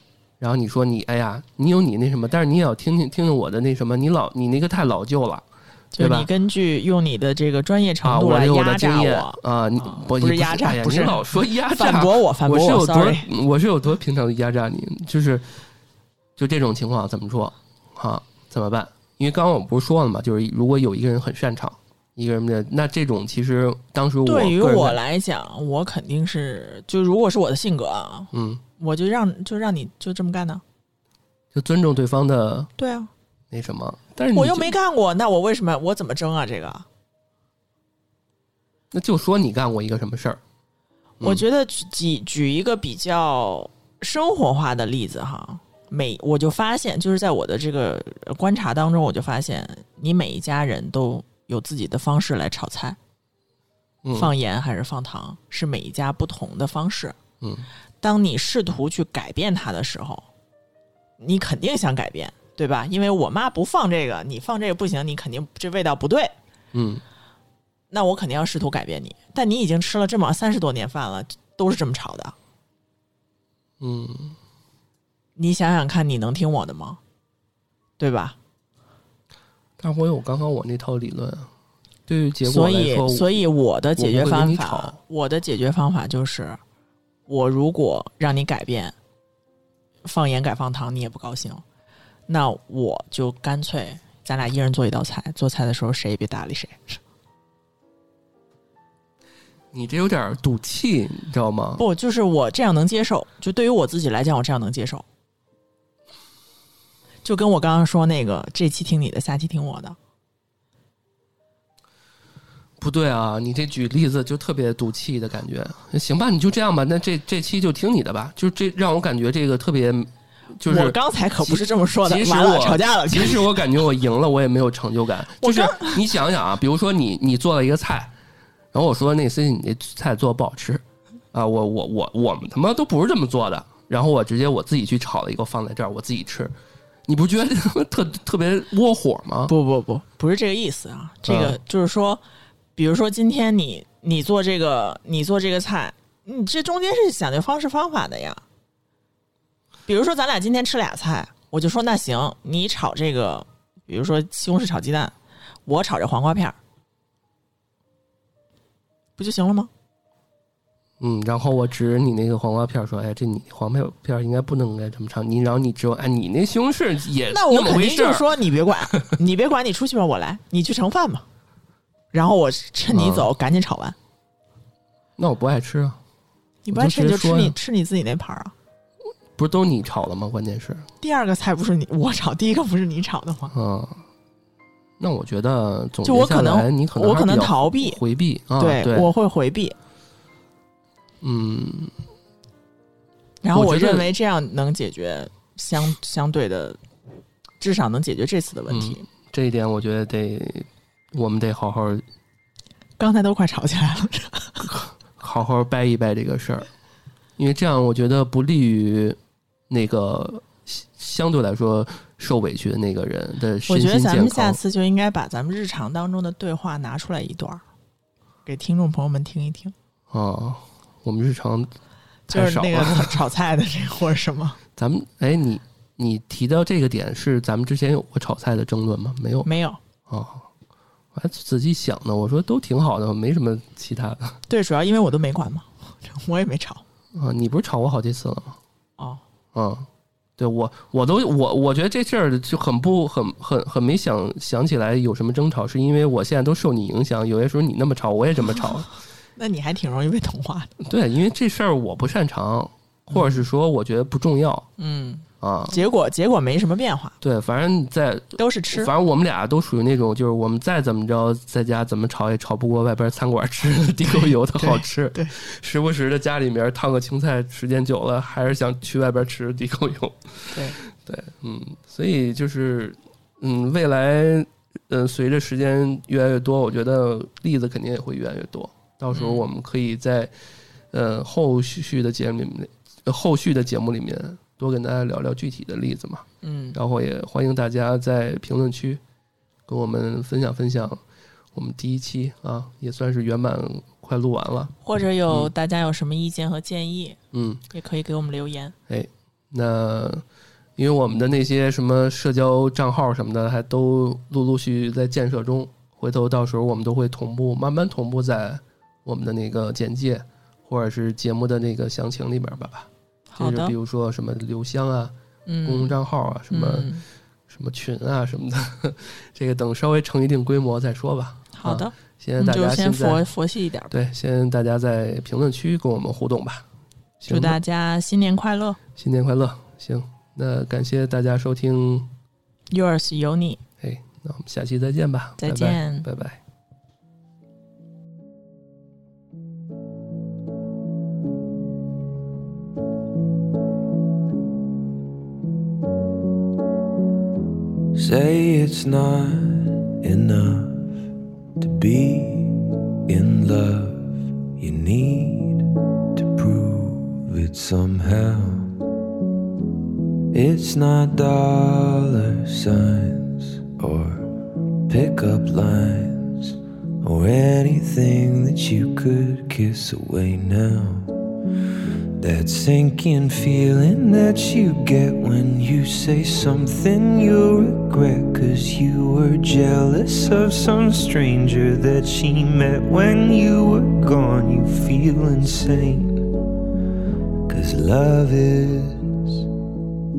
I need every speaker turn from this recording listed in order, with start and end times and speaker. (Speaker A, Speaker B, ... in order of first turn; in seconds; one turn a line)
Speaker A: 0.4-6.3
Speaker B: 5.9-13.3
Speaker A: 8.0-15.5
Speaker A: 16.4-25.0
Speaker B: 24.2-30.6
Speaker A: 28.3-28.6
Speaker A: 31.5-32.7
Speaker B: 32.8-33.1
Speaker A: 33.5-34.7
Speaker B: 34.3-36.9
Speaker A: 38.9-40.4
Speaker B: 41.2-53.0
Speaker A: 54.0-54.3
Speaker B: 54.1-57.2
Speaker A: 57.4-57.7
Speaker B: 58.0-60.3
Speaker B: 61.2-66.3
Speaker A: 66.7-67.0
Speaker B: 67.9-72.3
Speaker A: 73.8-74.3
Speaker B: 75.3-77.0
Speaker B: 78.0-78.4
Speaker A: 79.8-81.5
Speaker A: 82.1-83.3
Speaker B: 82.4-86.6
Speaker A: 84.0-85.0
Speaker B: 87.3-89.0
Speaker B: 90.0-91.6
Speaker B: 92.3-97.0
Speaker A: 99.7-101.8
Speaker B: 101.8-105.0
Speaker B: 107.2-110.0
Speaker A: 112.8-128.1
Speaker B: 120.6-123.5
Speaker B: 125.4-126.0
Speaker A: 128.7-136.5
Speaker A: 137.1-139.5
Speaker B: 139.5-142.2
Speaker A: 141.2-141.6
Speaker B: 142.8-148.4
Speaker B: 149.8-155.1
Speaker B: 155.7-156.6
Speaker B: 159.2-159.7
Speaker A: 161.0-168.4
Speaker B: 167.3-171.2
Speaker B: 172.1-173.9
Speaker A: 172.9-173.3
Speaker A: 175.2-176.0
Speaker B: 176.6-178.5
Speaker A: 176.7-177.6
Speaker A: 179.3-180.9
Speaker B: 181.0-183.5
Speaker A: 183.5-184.0
Speaker A: 185.0-189.1
Speaker B: 186.0-188.0
Speaker B: 188.6-189.7
Speaker A: 191.2-191.9
Speaker B: 193.4-196.8
Speaker A: 193.5-194.1
Speaker B: 197.6-199.0
Speaker A: 198.7-202.0
Speaker B: 203.0-204.7
Speaker A: 204.6-206.7
Speaker A: 207.4-209.2
Speaker A: 209.7-214.6
Speaker B: 213.7-217.6
Speaker B: 218.4-219.7
Speaker A: 220.1-221.7
Speaker B: 222.3-224.6
Speaker A: 222.3-223.2
Speaker A: 224.8-229.5
Speaker B: 229.4-229.8
Speaker A: 230.1-230.4
Speaker A: 231.1-234.4
Speaker B: 234.5-236.8
Speaker A: 237.1-238.6
Speaker A: 239.5-239.9
Speaker A: 240.4-248.9
Speaker B: 249.3-250.7
Speaker A: 250.8-254.7
Speaker B: 253.1-253.4
Speaker B: 254.8-257.1
Speaker A: 255.4-255.8
Speaker A: 257.2-280.3
Speaker B: 258.4-258.9
Speaker B: 264.1-265.3
Speaker B: 270.5-270.8
Speaker B: 279.1-279.4
Speaker A: 280.9-289.0
Speaker B: 286.4-286.8
Speaker A: 289.7-291.0
Speaker A: 291.5-294.7
Speaker B: 294.8-297.2
Speaker A: 297.3-297.6
Speaker B: 297.7-298.7
Speaker A: 298.9-300.2
Speaker A: 300.8-315.1
Speaker B: 313.3-313.7
Speaker B: 315.4-315.9
Speaker A: 315.6-316.9
Speaker B: 316.5-317.0
Speaker A: 317.5-323.2
Speaker B: 321.5-323.9
Speaker A: 323.9-326.6
Speaker A: 327.2-327.6
Speaker B: 327.2-328.8
Speaker A: 328.9-332.1
Speaker B: 332.7-333.6
Speaker A: 333.8-336.4
Speaker B: 335.4-336.1
Speaker C: 347.9-351.0
Speaker C: 351.6-358.8
Speaker C: 360.3-371.1
Speaker C: 372.2-386.3
Speaker C: 387.5-389.4